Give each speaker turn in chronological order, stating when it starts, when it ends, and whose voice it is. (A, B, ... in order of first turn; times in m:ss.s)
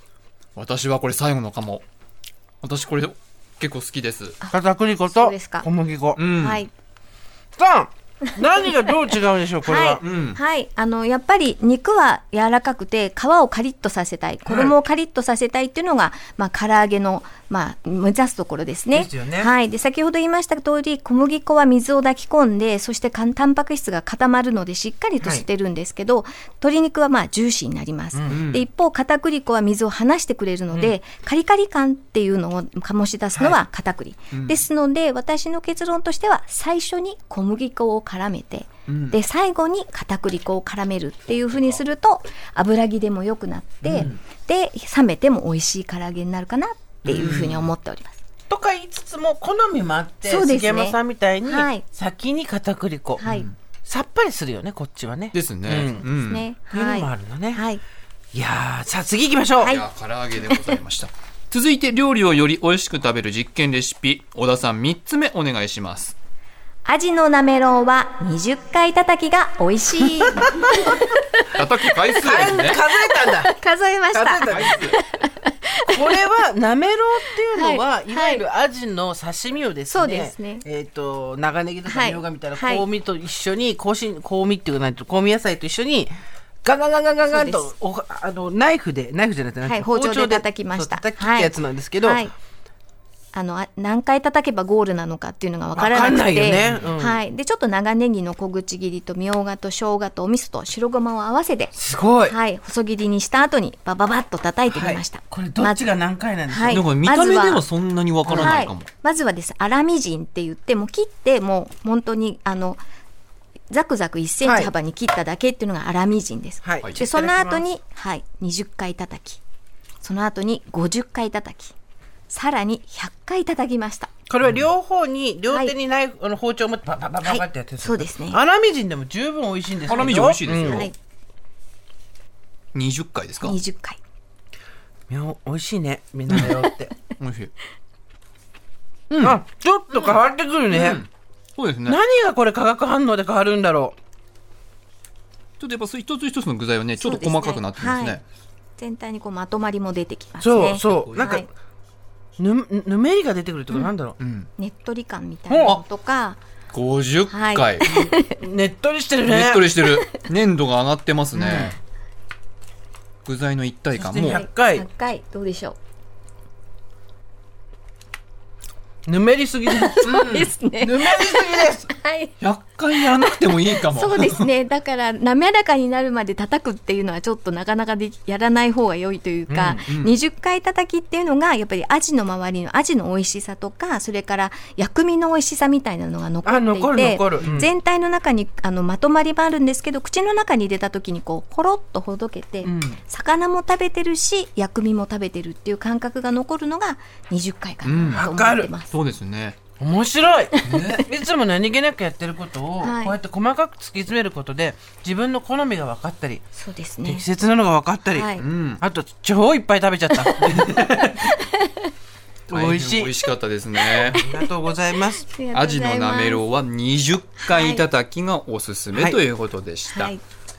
0:00.5-0:01.8 A
0:02.6-0:04.4 A
0:04.5-0:06.2 B
0:05.1-0:05.7 C
0:06.2-0:06.6 A
0:06.3-0:06.7 C
0:07.6-0:10.0 B
0:09.6-0:48.2 C
0:10.0-0:10.4 A
0:14.4-0:14.7 B
0:18.9-0:19.5 B
0:25.2-0:25.4 B
0:28.1-0:28.4 B
0:28.3-0:28.6 A
0:33.3-0:33.6 B
0:34.3-0:34.6 A
0:38.9-0:39.2 A
0:43.8-0:44.2 A
0:47.0-0:47.7 A
0:48.5-0:53.2 B
0:50.2-0:51.8 C
0:53.2-0:53.5 C
0:53.2-0:53.5 A
0:53.8-0:56.0 B
0:55.3-0:56.5 A
0:55.9-0:57.8 C
0:56.7-0:57.6 B
0:58.3-0:59.8 B
0:59.6-0:59.8 C
0:59.6-1:06.1 A
1:00.4-1:00.8 C
1:06.8-1:11.2 C
1:10.4-1:10.9 B
1:11.5-1:12.8 A
1:12.1-1:13.5 B
1:13.4-1:15.9 C
1:14.1-1:14.9 B
1:14.5-1:14.9 A
1:15.8-1:32.3 B
1:17.5-1:18.4 C
1:19.9-1:20.6 C
1:21.9-1:22.8 C
1:27.3-1:27.7 C
1:29.6-1:32.3 C
1:33.3-1:41.7 C
1:35.7-1:37.2 B
1:36.5-1:37.0 A
1:41.7-1:42.4 B
1:42.2-1:45.9 C
1:44.7-1:46.9 B
1:46.5-1:47.6 C
1:46.7-1:48.9 A
1:48.2-1:48.6 B
1:48.3-1:52.8 C
1:53.7-1:59.4 C
1:54.4-1:54.7 B
1:56.6-1:57.6 B
2:00.0-2:01.7 C
2:02.3-2:04.1 C
2:04.3-2:10.9 B
2:04.4-2:04.7 A
2:07.2-2:08.4 C
2:09.8-2:10.9 A
2:10.6-2:10.9 C
2:12.7-2:13.6 A
2:13.4-2:14.0 C
2:15.1-2:16.9 B
2:17.2-2:17.5 A
2:19.1-2:19.4 A
2:19.2-2:21.0 B
2:20.7-2:22.0 A
2:21.8-2:24.0 B
2:25.6-2:28.2 A
2:27.0-2:28.2 C
2:28.8-2:31.5 C
2:30.4-2:31.5 B
2:30.6-2:31.4 A
2:32.4-2:34.2 B
2:33.7-2:34.5 A
2:34.6-2:36.4 C
2:35.5-2:35.8 B
2:36.7-2:37.9 A
2:37.3-2:38.4 C
2:38.2-2:39.8 B
2:39.3-2:41.8 A
2:41.3-2:41.7 B
2:43.2-2:44.4 A
2:43.9-2:44.8 B
2:44.3-2:45.8 C
2:49.0-2:51.9 B
2:49.7-2:52.3 C
2:50.0-2:50.5 A
2:52.4-2:54.4 A
2:53.8-3:18.9 C
2:59.5-2:59.8 B
2:59.9-3:00.1 A
3:06.4-3:07.7 B
3:12.6-3:13.0 B
3:17.8-3:18.3 A
3:18.1-3:18.7 B
3:18.9-3:19.6 A
3:19.8-3:26.4 B
3:20.6-3:21.0 A
3:22.8-3:23.2 C
3:26.5-3:27.2 C
3:27.0-3:30.9 B
3:28.1-3:28.4 C
3:28.4-3:28.8 A
3:30.4-3:31.1 A
3:31.2-3:31.7 C
3:32.5-3:34.2 A
3:32.5-3:33.1 B
3:34.0-3:35.3 B
3:35.2-3:36.4 C
3:35.5-3:40.1 A
3:37.5-3:37.8 C
3:38.9-3:39.2 B
3:39.9-3:40.2 C